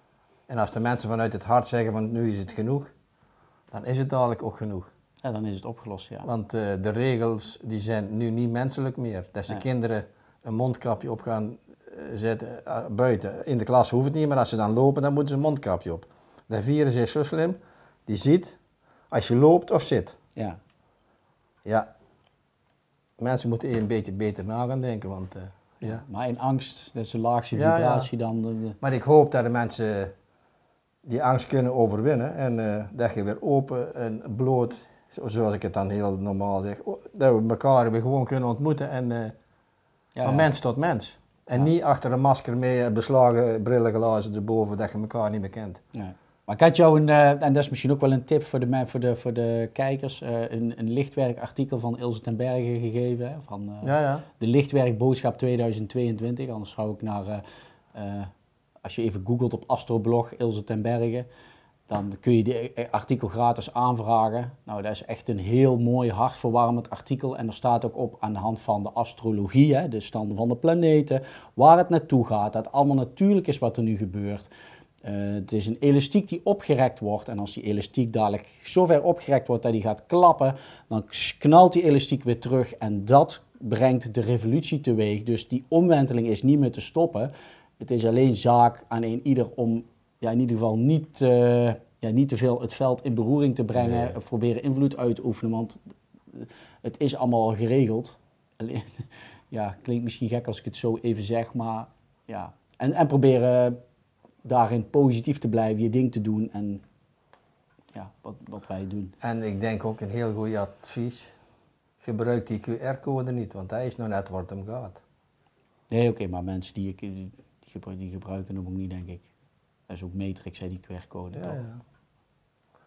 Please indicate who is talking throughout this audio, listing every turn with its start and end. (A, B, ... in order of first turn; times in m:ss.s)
0:00.5-0:02.9 A
0:03.7-0:04.9 A
0:05.2-0:06.3 B
0:06.2-0:18.6 A
0:19.1-0:20.2 A
0:23.2-0:26.0 A
0:25.8-0:28.8 B
0:27.5-0:28.1 A
0:28.8-0:30.1 A
0:31.0-0:39.3 A
0:40.2-0:40.5 B
0:40.2-0:45.8 A
0:45.9-0:57.4 B
0:53.8-0:54.3 A
0:57.9-0:58.3 B
0:58.8-1:01.3 B
1:01.9-1:14.5 B
1:15.0-1:35.8 B
1:33.8-1:34.2 A
1:36.3-1:43.8 B
1:44.4-1:46.8 B
1:48.0-1:49.1 B
1:49.2-1:51.3 A
1:52.0-1:55.0 A
1:55.9-1:59.3 B
1:59.9-2:01.6 B
2:01.3-2:01.8 A